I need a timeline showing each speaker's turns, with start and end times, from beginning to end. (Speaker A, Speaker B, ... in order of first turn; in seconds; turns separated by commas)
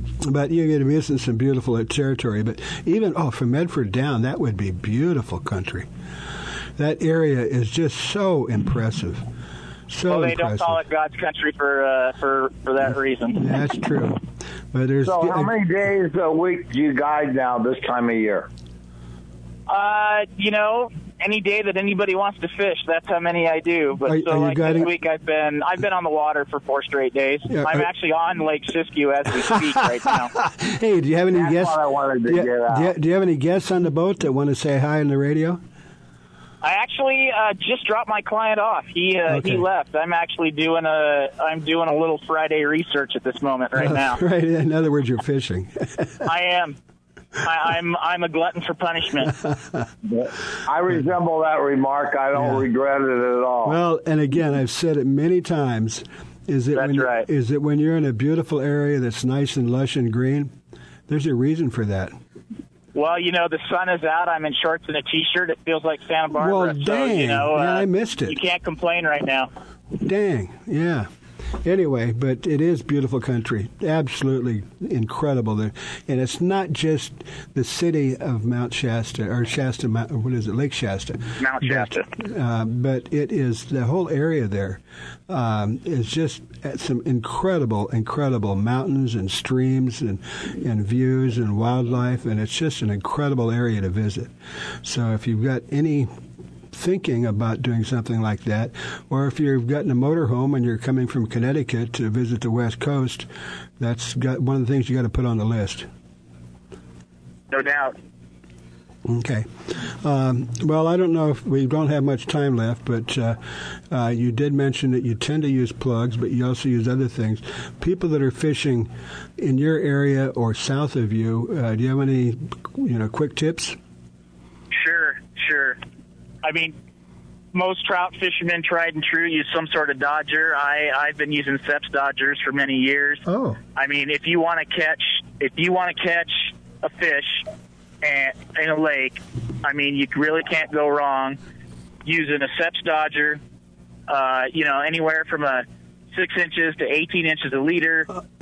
Speaker A: 0.2-5.9, Speaker A: 6.8-9.3, Speaker A: 9.9-10.8, Speaker B: 10.1-13.5, Speaker A: 13.3-15.6, Speaker C: 15.0-18.5, Speaker B: 19.7-30.3, Speaker A: 24.1-24.9, Speaker A: 27.5-27.9, Speaker A: 29.4-35.6, Speaker C: 31.3-32.9, Speaker B: 36.6-44.2, Speaker A: 39.3-39.6, Speaker A: 43.8-46.2, Speaker B: 46.2-46.8, Speaker B: 47.4-49.4, Speaker A: 49.2-49.9, Speaker C: 50.1-53.8, Speaker A: 52.4-52.7, Speaker A: 53.6-60.5, Speaker B: 56.7-57.3, Speaker A: 61.1-62.2, Speaker B: 62.9-69.5, Speaker A: 66.4-68.4, Speaker A: 70.0-71.1, Speaker A: 71.6-94.3, Speaker B: 81.4-82.1, Speaker A: 94.8-96.1, Speaker A: 96.7-103.3, Speaker A: 103.8-105.9, Speaker B: 107.5-108.0, Speaker A: 109.1-123.8, Speaker B: 124.7-125.8, Speaker B: 126.4-126.8, Speaker B: 127.5-133.2, Speaker A: 133.3-133.6, Speaker B: 133.8-137.5, Speaker B: 138.0-141.4, Speaker B: 142.0-143.4, Speaker B: 144.1-148.1